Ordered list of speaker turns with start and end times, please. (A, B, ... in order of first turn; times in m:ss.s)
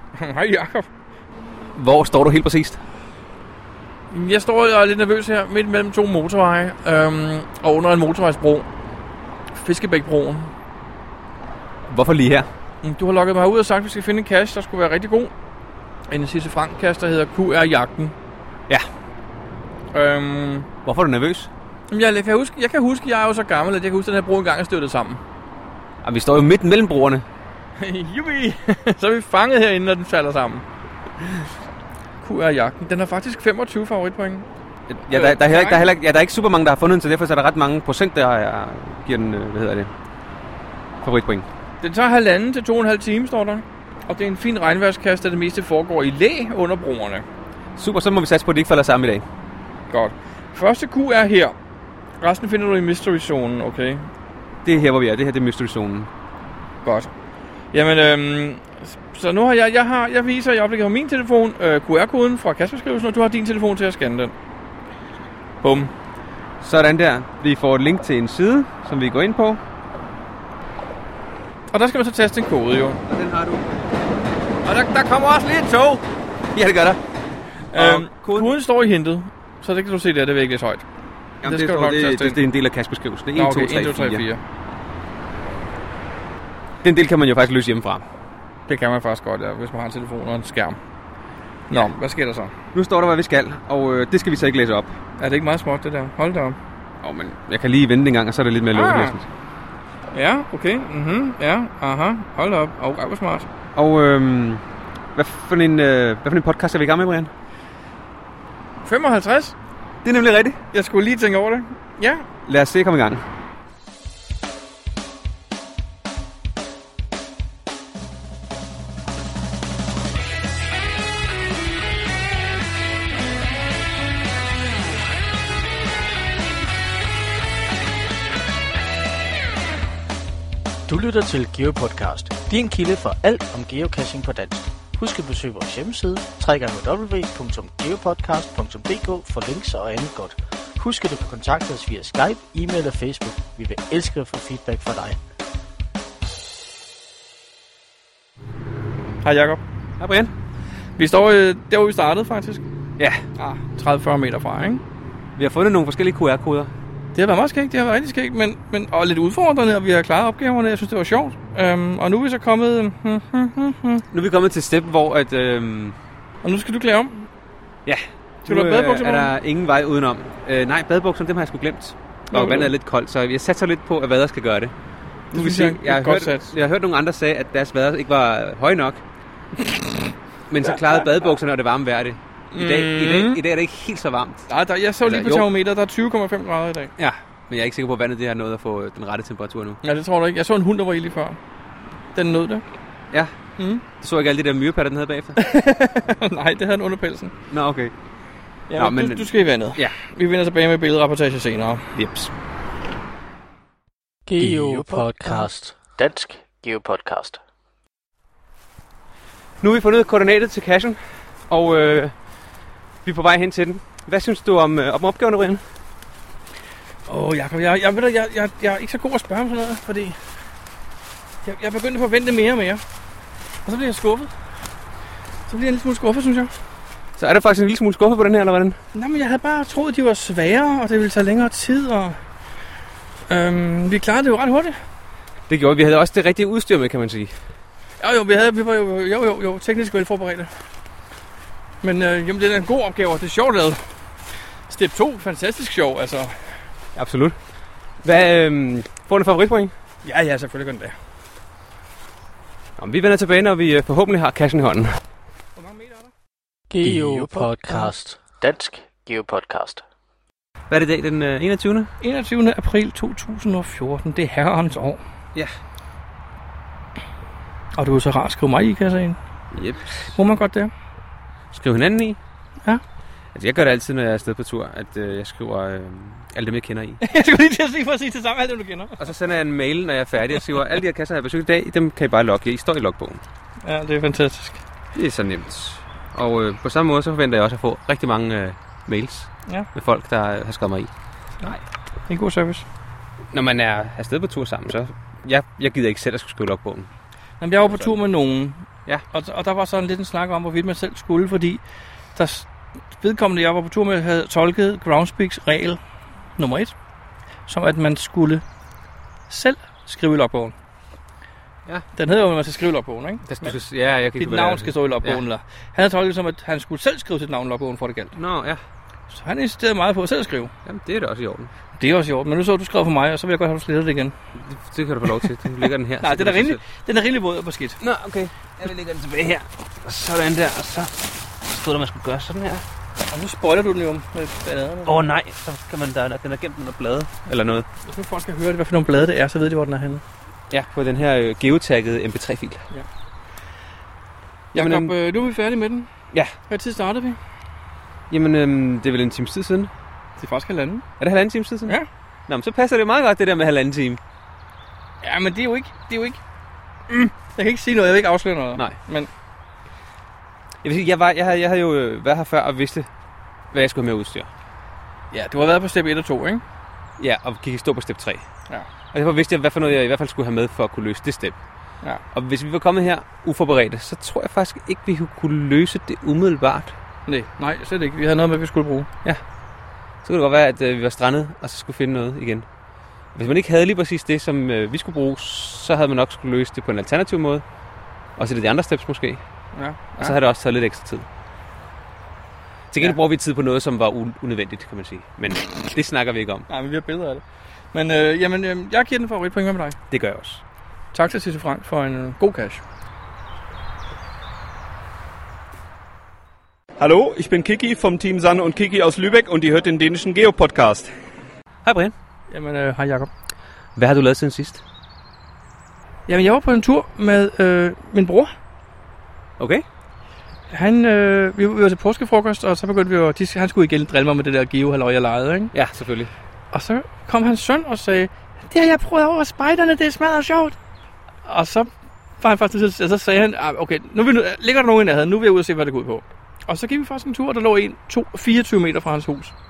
0:00.2-0:00.9 A
0:01.7-0:02.8 B
0:04.1-0:08.6 A
0:09.5-0:10.5 A
0:11.9-0:12.5 B
0:12.8-0:15.3 A
0:16.1-0:18.1 A
0:19.9-0:20.7 A
0:20.8-0:21.5 B
0:21.9-0:25.2 A
0:26.0-0:27.2 B
0:27.8-0:30.6 A
0:32.2-0:34.5 A
0:34.9-0:39.9 B
0:35.1-0:35.9 A
0:41.0-0:41.5 B
0:41.8-0:47.2 A
0:47.8-0:49.2 B
0:49.9-0:51.5 A
0:52.2-0:54.1 A
0:54.6-0:56.1 B
0:56.8-0:57.1 A
0:57.7-1:04.3 A
1:05.6-1:05.9 A
1:06.6-1:09.6 B
1:11.7-1:13.0 A
1:13.1-1:13.9 B
1:14.6-1:16.0 A
1:16.5-1:17.0 B
1:17.7-1:20.8 A
1:17.7-1:18.5 B
1:21.4-1:24.2 B
1:21.4-1:22.4 A
1:23.4-1:24.4 A
1:26.8-1:28.0 B
1:28.7-1:30.8 A
1:31.7-1:32.5 A
1:32.7-1:35.0 B
1:35.2-1:36.6 A
1:37.0-1:39.2 B
1:38.7-1:39.2 A
1:40.1-1:43.5 A
1:43.8-1:44.6 B
1:45.1-1:47.3 B
1:48.8-1:49.5 A
1:50.0-1:50.6 B
1:50.7-1:52.3 A
1:52.4-1:53.2 B
2:10.9-2:25.2 C
2:29.2-2:29.6 A
2:30.0-2:30.3 B
2:31.0-2:32.6 A
2:33.4-2:34.8 A
2:35.4-2:36.7 B
2:37.1-2:44.0 A
2:44.1-2:46.0 B
2:46.4-2:47.3 A
2:47.8-2:54.7 B
2:48.4-2:49.3 A
2:52.3-2:52.7 A
2:55.3-2:56.5 A
2:55.3-2:59.0 B
3:00.5-3:04.5 B
3:02.5-3:03.4 A
3:04.5-3:06.9 A
3:05.0-3:05.4 B
3:07.0-3:09.8 B
3:09.8-3:11.4 A
3:12.1-3:12.6 A
3:13.6-3:13.8 A
3:14.0-3:15.4 B
3:15.4-3:17.3 A
3:17.5-3:17.9 B
3:18.7-3:21.9 A
3:18.8-3:19.9 B
3:21.9-3:22.3 B
3:24.3-3:25.4 A
3:24.4-3:27.4 C
3:29.6-3:32.1 B
3:33.0-3:35.6 B
3:37.1-3:40.2 A
3:41.4-3:42.8 A
3:43.6-3:44.3 A
3:45.5-3:46.5 A
3:47.2-3:48.8 B
3:48.9-3:52.2 A
3:53.3-3:54.7 A
3:55.5-3:57.3 B
3:58.0-4:00.5 A
4:01.8-4:03.8 A
4:04.7-4:06.6 A
4:07.0-4:07.4 B
4:08.0-4:09.7 B
4:10.0-4:10.9 A
4:12.8-4:15.0 B
4:15.6-4:16.1 A
4:16.7-4:17.5 A
4:16.8-4:19.8 C
4:20.7-4:21.9 B
4:22.0-4:25.0 A
4:27.8-4:29.2 A
4:29.5-4:30.1 B
4:30.1-4:30.7 A
4:31.5-4:32.2 B
4:33.3-4:37.0 B
4:37.0-4:39.0 A
4:39.0-4:43.2 B
4:43.6-4:44.6 A
4:44.9-4:50.9 B
4:52.1-4:52.6 A
4:53.3-4:56.9 B
4:57.4-5:01.6 A
5:02.1-5:05.8 A
5:06.4-5:06.7 A
5:07.5-5:08.4 A
5:09.3-5:10.5 A
5:12.0-5:13.6 A
5:13.2-5:15.2 B
5:14.2-5:18.1 A
5:18.1-5:18.6 B
5:19.1-5:20.5 A
5:20.6-5:21.5 B
5:21.8-5:24.1 A
5:24.4-5:26.6 B
5:26.0-5:27.8 A
5:27.8-5:32.6 B
5:33.1-5:35.0 A
5:34.8-5:37.6 B
5:37.9-5:40.0 A
5:40.5-5:42.6 B
5:44.5-5:44.9 B
5:44.5-5:45.9 A
5:46.5-5:47.2 A
5:48.1-5:49.7 B
5:50.2-5:50.8 A
5:51.0-5:51.8 B
5:52.3-5:54.0 B
5:55.0-5:56.2 A
5:56.9-5:59.1 A
6:00.6-6:02.9 B
6:03.5-6:04.3 B
6:05.1-6:06.4 A
6:07.0-6:08.2 B
6:08.9-6:11.4 B
6:12.1-6:16.7 B
6:17.1-6:18.9 A
6:20.0-6:22.4 B
6:23.1-6:27.4 B
6:28.2-6:29.2 B
6:29.5-6:30.2 A
6:30.0-6:31.0 B
6:32.7-6:36.5 B
6:36.5-6:37.2 A
6:37.7-6:39.8 A
6:39.9-6:40.4 B
6:40.9-6:42.6 A
6:46.8-6:50.9 D
6:51.6-6:51.9 B
6:52.3-6:53.1 A
6:53.8-6:54.6 B
6:56.1-6:58.3 A
6:59.4-6:59.6 B
7:00.5-7:05.5 A
7:05.5-7:06.1 B
7:06.5-7:10.6 A
7:11.2-7:11.7 A
7:12.2-7:19.3 A